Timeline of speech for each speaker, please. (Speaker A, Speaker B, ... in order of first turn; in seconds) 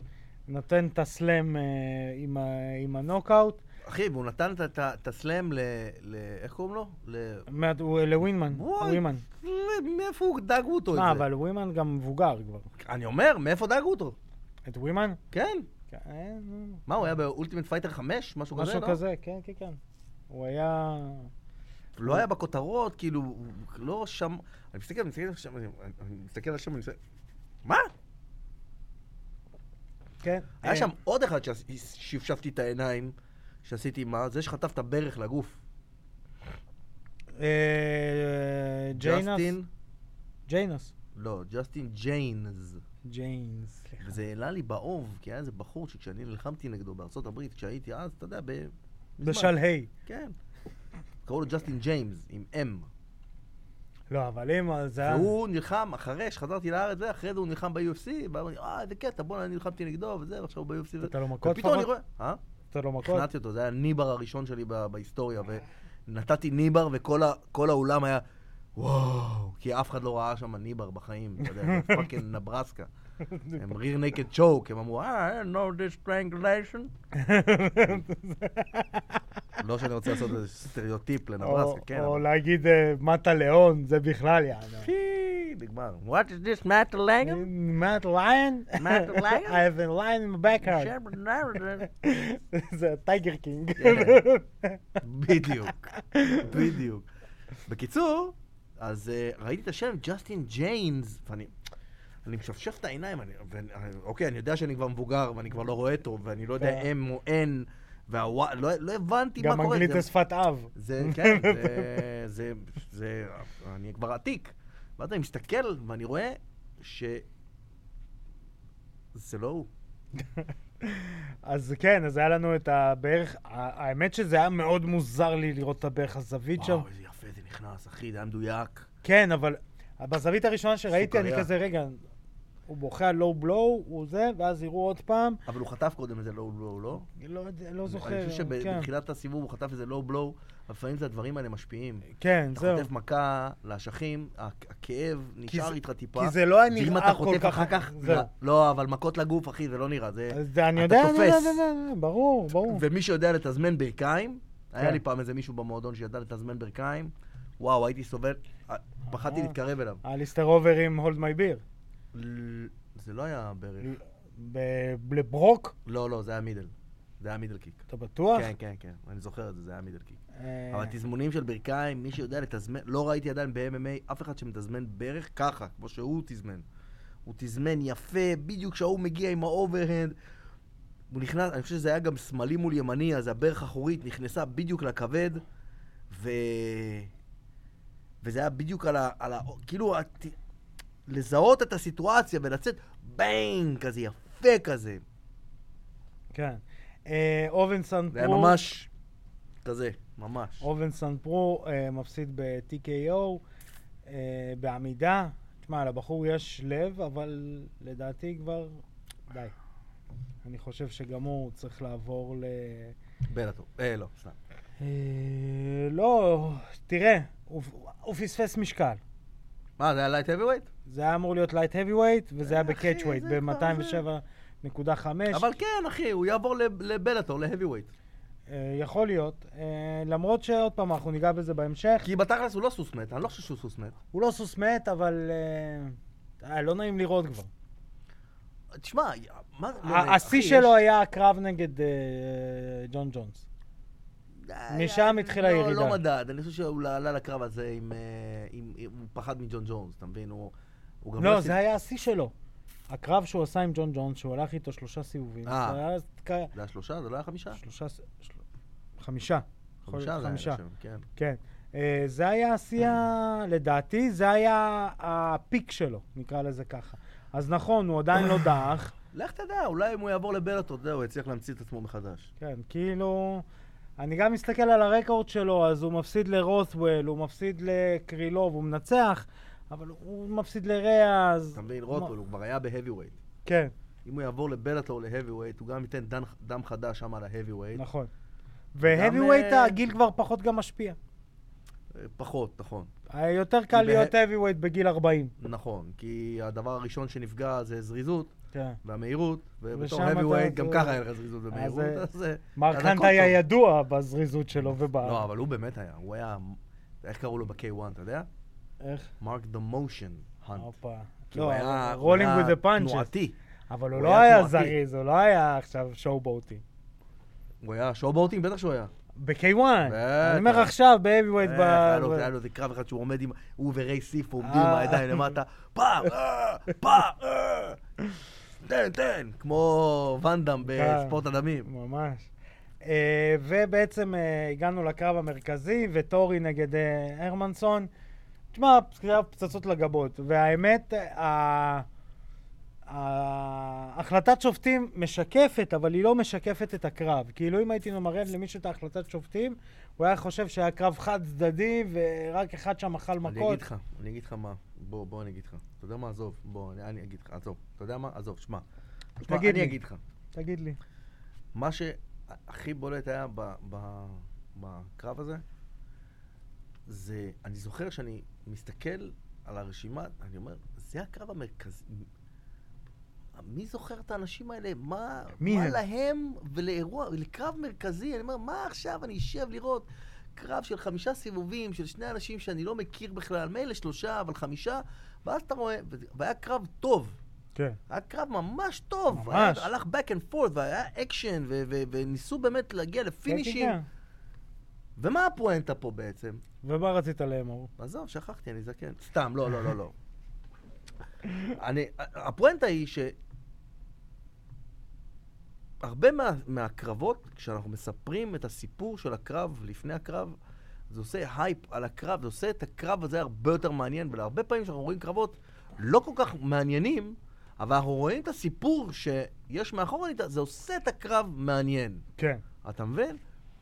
Speaker A: 0.5-3.6, 7.5-9.2, 10.9-12.7, 14.7-15.2, 15.9-16.8, 18.6-19.8, 20.3-21.3, 30.2-30.9, 37.4-39.6, 40.5-40.9, 43.1-44.2, 49.2-49.9, 54.1-55.3, 61.0-61.9, 62.7-63.3, 71.4-72.1, 73.2-73.8, 77.1-79.6, 81.4-84.9, 87.2-91.0, 91.8-96.8, 106.6-106.9, 109.4-112.1, 120.4-126.9, 129.0-132.0, 132.7-135.4, 137.2-138.9, 142.2-142.9, 145.5-148.3, 150.3-152.8, 159.1-161.6, 163.8-165.8, 167.9-168.5, 170.3-171.0, 196.3-198.7, 200.6-203.4, 204.1-209.5, 210.4-213.0, 214.8-219.0, 220.9-225.5, 228.5-232.1, 234.1-237.5, 239.8-243.5, 244.7-246.0, 251.2-252.3, 252.9-256.5, 257.5-258.4, 259.0-260.6, 261.2-268.9, 272.4-273.4, 274.0-282.1, 283.5-283.7, 287.8-288.1, 288.7-291.0, 293.1-295.3, 298.5-298.8, 299.7-301.0, 301.5-305.2, 308.8-309.1, 310.6-313.1, 313.7-316.6, 319.2-322.3, 324.4-325.3, 330.7-332.3, 332.8-337.9, 338.5-341.9, 342.9-353.6, 359.2-359.8, 360.3-360.8, 375.4-375.8, 389.1-389.7, 393.3-393.9, 396.6-397.7, 422.2-422.4
Speaker B: 3.8-7.5, 8.5-11.2, 12.8-14.2, 15.3-15.7, 16.9-19.0, 22.0-27.0, 27.6-27.9, 30.6-35.6, 39.0-39.7, 41.1-42.8, 44.0-49.5, 50.1-50.3, 51.2-52.9, 55.0-62.4, 63.0-68.2, 68.8-72.9, 73.5-76.9, 79.6-82.2, 84.8-87.5, 88.8-89.6, 90.6-91.9, 93.8-94.2, 95.0-95.9, 96.4-97.1, 97.7-101.5, 102.2-110.1, 110.8-117.3, 119.1-119.7, 126.6-128.9, 130.9-131.5, 135.5-137.1, 137.9-151.6, 152.7-160.0, 162.1-163.9, 165.9-167.8, 168.3-170.2, 170.7-176.7, 177.2-180.2, 181.1-185.4, 186.1-187.1, 188.2-190.4, 191.1-195.0, 198.1-198.9, 199.6-200.7, 213.3-214.4, 219.8-220.7, 222.4-224.0, 225.3-227.9, 232.0-234.0, 238.8-240.8, 244.3-251.6, 255.5-255.8, 256.5-257.6, 259.9-261.1, 269.1-272.3, 281.6-283.2, 284.1-287.8, 288.8-289.8, 291.9-292.9, 293.7-294.1, 295.4-298.3, 298.8-303.4, 305.0-308.3, 309.2-310.7, 311.3-313.4, 313.9-314.8, 317.6-318.9, 319.9-320.7, 321.4-327.8, 328.6-331.7, 353.2-358.6, 359.2-360.0, 361.5-365.4, 366.9-372.1, 373.4-387.2, 387.9-393.8, 395.0-396.4, 397.8-399.9, 401.5-403.2, 405.8-410.4, 410.9-422.0, 422.6-423.2